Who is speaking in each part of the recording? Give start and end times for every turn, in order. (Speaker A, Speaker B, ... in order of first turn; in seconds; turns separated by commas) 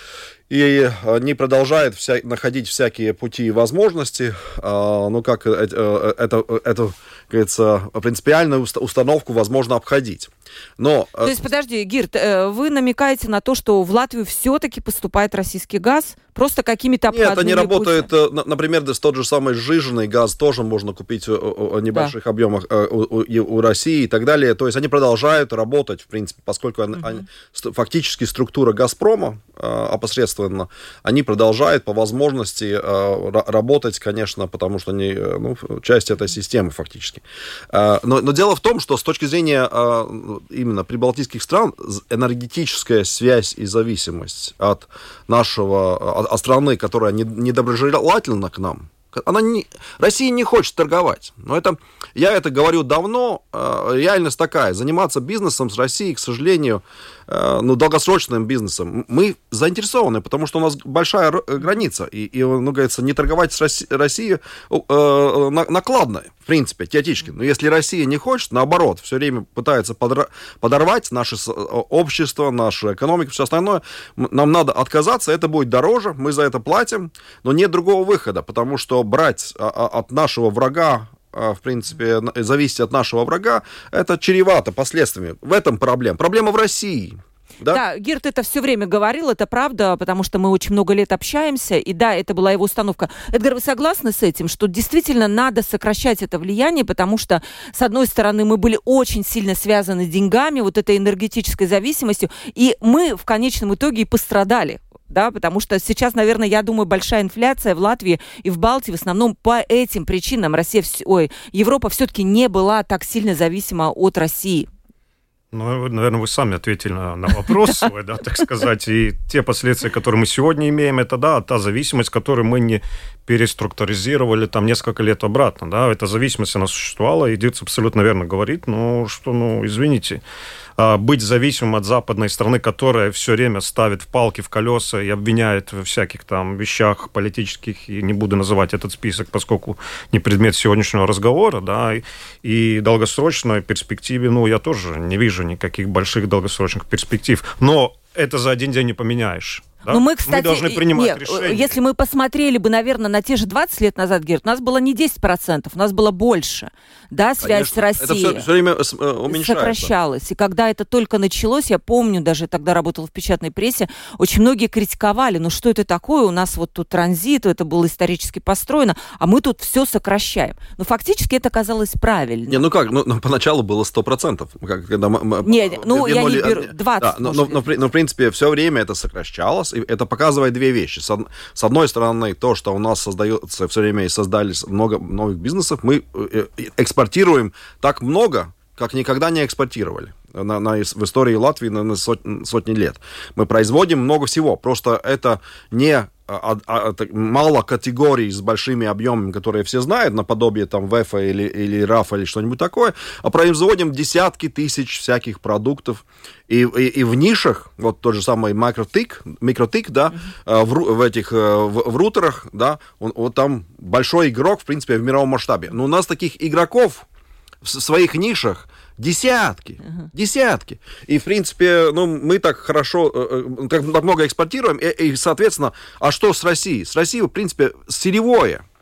Speaker A: 0.5-11.4, Speaker B: 11.2-18.1, Speaker A: 17.1-87.8, Speaker B: 87.7-114.7, Speaker C: 115.5-130.2, Speaker C: 130.8-151.7, Speaker B: 149.9-158.5, Speaker A: 157.4-159.9, Speaker B: 159.3-172.6, Speaker A: 172.5-217.1, Speaker B: 175.4-177.6, Speaker A: 217.6-228.6